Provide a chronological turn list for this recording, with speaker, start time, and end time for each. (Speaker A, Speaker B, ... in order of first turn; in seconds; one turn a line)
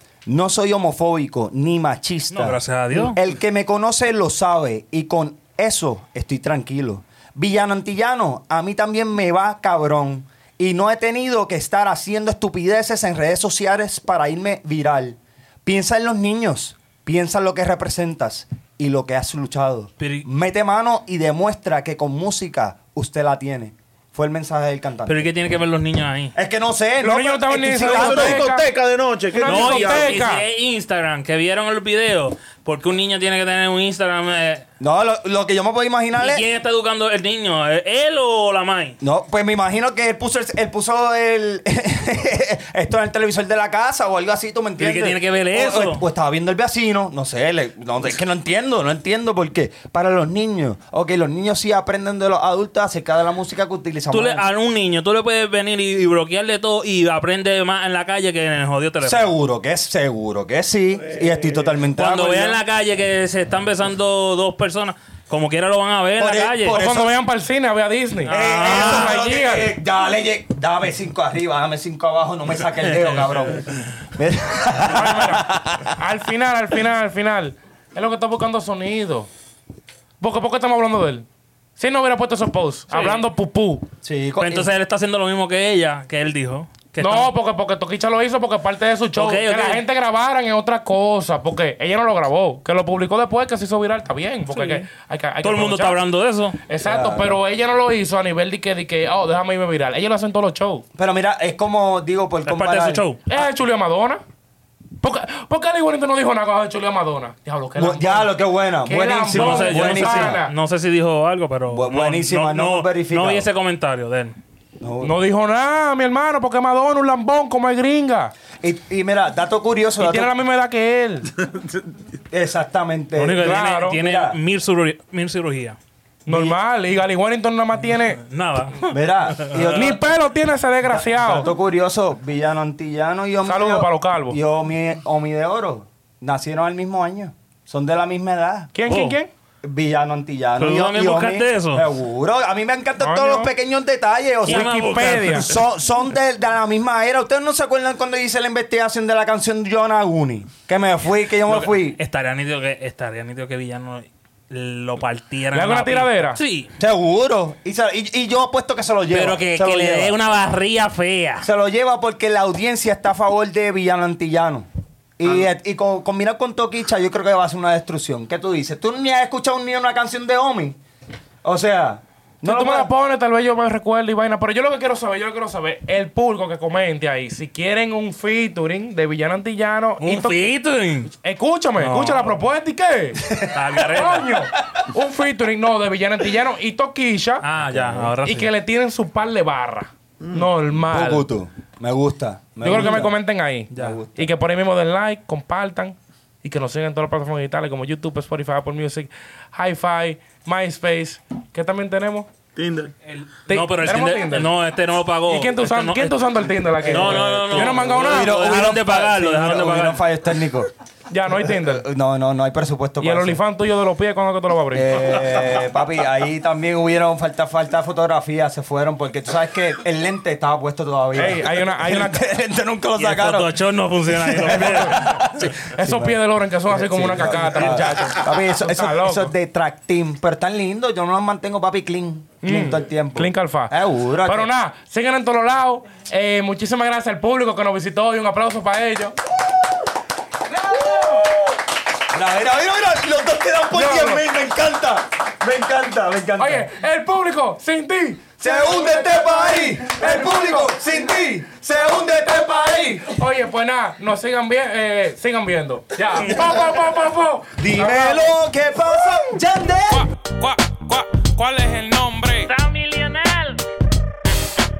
Speaker A: 0.2-25.3
Speaker B: 2.3-3.2
Speaker B: 20.0-20.2
Speaker B: 25.1-26.3
Speaker A: 26.3-28.4
Speaker C: 27.0-28.7
Speaker D: 27.8-30.2
Speaker C: 29.3-30.4
Speaker B: 29.4-34.6
Speaker A: 34.8-36.4
Speaker B: 36.1-39.0
Speaker A: 39.0-54.4
Speaker B: 44.8-46.0
Speaker B: 54.1-59.3
Speaker A: 59.0-62.6
Speaker B: 62.0-66.8
Speaker A: 66.2-67.1
Speaker C: 66.7-69.7
Speaker B: 68.2-69.2
Speaker A: 68.3-76.0
Speaker B: 72.8-73.7
Speaker C: 74.9-79.3
Speaker C: 80.2-81.2
Speaker C: 81.8-83.8
Speaker B: 82.9-83.2
Speaker A: 84.0-84.7
Speaker B: 84.4-87.3
Speaker C: 87.0-96.0
Speaker B: 89.2-89.8
Speaker B: 94.5-94.8
Speaker B: 95.4-96.6
Speaker C: 96.7-100.8
Speaker A: 96.8-97.4
Speaker A: 100.9-103.0
Speaker B: 102.5-103.2
Speaker C: 103.3-104.2
Speaker C: 105.0-108.3
Speaker A: 107.8-110.4
Speaker C: 108.8-110.5
Speaker B: 109.3-114.3
Speaker A: 111.7-113.5
Speaker A: 114.8-115.2
Speaker C: 115.0-118.3
Speaker A: 118.6-120.3
Speaker C: 120.0-121.3
Speaker A: 122.3-124.4
Speaker B: 123.2-125.8
Speaker C: 123.4-124.0
Speaker C: 126.3-128.2
Speaker A: 126.3-126.6
Speaker B: 128.1-129.9
Speaker A: 128.8-130.0
Speaker C: 129.7-131.5
Speaker A: 130.9-138.7
Speaker C: 133.4-134.4
Speaker C: 138.7-139.3
Speaker B: 138.9-139.2
Speaker A: 139.6-152.0
Speaker B: 140.6-141.8
Speaker C: 143.0-143.5
Speaker C: 144.4-145.5
Speaker B: 144.4-145.6
Speaker B: 151.5-156.7
Speaker C: 155.5-156.4
Speaker A: 156.8-160.2
Speaker B: 159.1-161.5
Speaker A: 161.4-164.7
Speaker A: 165.2-170.8
Speaker A: 171.4-172.9
Speaker C: 172.4-180.3
Speaker B: 180.0-181.1
Speaker C: 181.2-183.3
Speaker B: 181.8-182.4
Speaker A: 183.2-183.6
Speaker B: 183.4-184.3
Speaker C: 183.9-187.4
Speaker B: 187.4-188.5
Speaker A: 187.6-188.2
Speaker C: 188.2-191.2
Speaker A: 190.9-193.2
Speaker C: 192.6-202.3
Speaker A: 193.7-194.3
Speaker D: 202.6-202.9
Speaker B: 203.1-206.2
Speaker C: 203.5-204.5
Speaker C: 205.3-208.3
Speaker A: 206.8-210.7
Speaker B: 206.8-210.0
Speaker C: 211.1-211.8
Speaker A: 211.4-213.4
Speaker C: 213.0-214.9
Speaker A: 214.7-223.5
Speaker C: 221.1-222.2
Speaker B: 223.0-225.5
Speaker A: 224.1-234.5
Speaker C: 224.4-229.3
Speaker C: 232.4-239.2
Speaker A: 239.4-239.7
Speaker C: 240.5-241.3
Speaker A: 240.7-241.4
Speaker A: 242.1-246.7
Speaker C: 243.7-244.2
Speaker C: 246.4-250.8
Speaker A: 248.4-253.2
Speaker C: 253.0-258.3
Speaker A: 256.2-256.6
Speaker A: 257.6-260.1
Speaker C: 259.9-262.5
Speaker B: 262.4-263.6